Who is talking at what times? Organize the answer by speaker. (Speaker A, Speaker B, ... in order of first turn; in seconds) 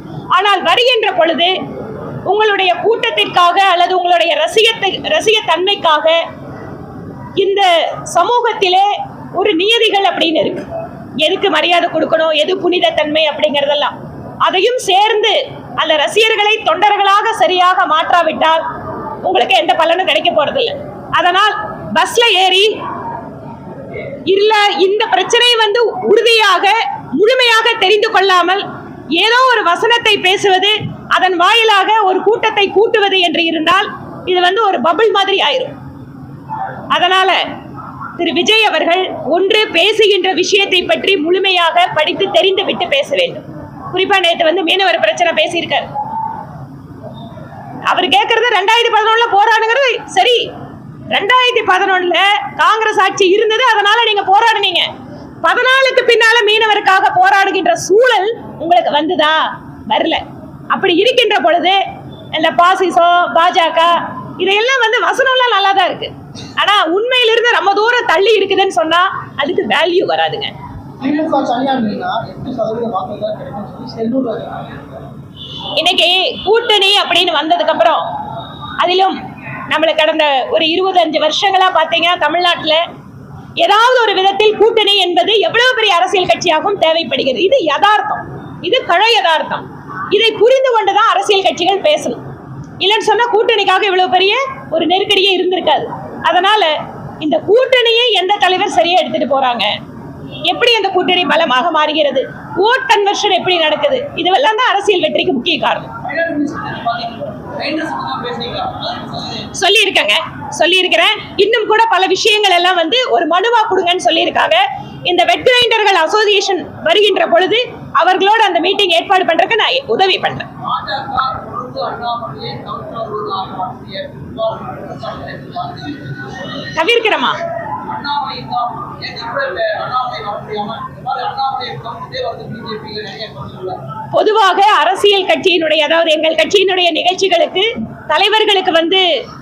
Speaker A: 0.3-1.5, 2.3-6.2, 7.4-10.7, 11.2-18.6, 19.2-22.7, 24.3-28.6, 29.2-35.7, 36.9-37.4, 38.2-45.9, 47.9-50.4, 51.1-54.9, 55.4-61.8, 62.3-70.5, 75.8-78.0, 78.8-79.2, 79.7-82.8, 83.6-92.2, 92.8-99.7, 100.5-105.9, 109.5-120.5, 126.7-127.4, 134.1-139.1
Speaker B: 71.0-74.8
Speaker C: 106.0-109.4, 120.6-126.2, 127.8-133.8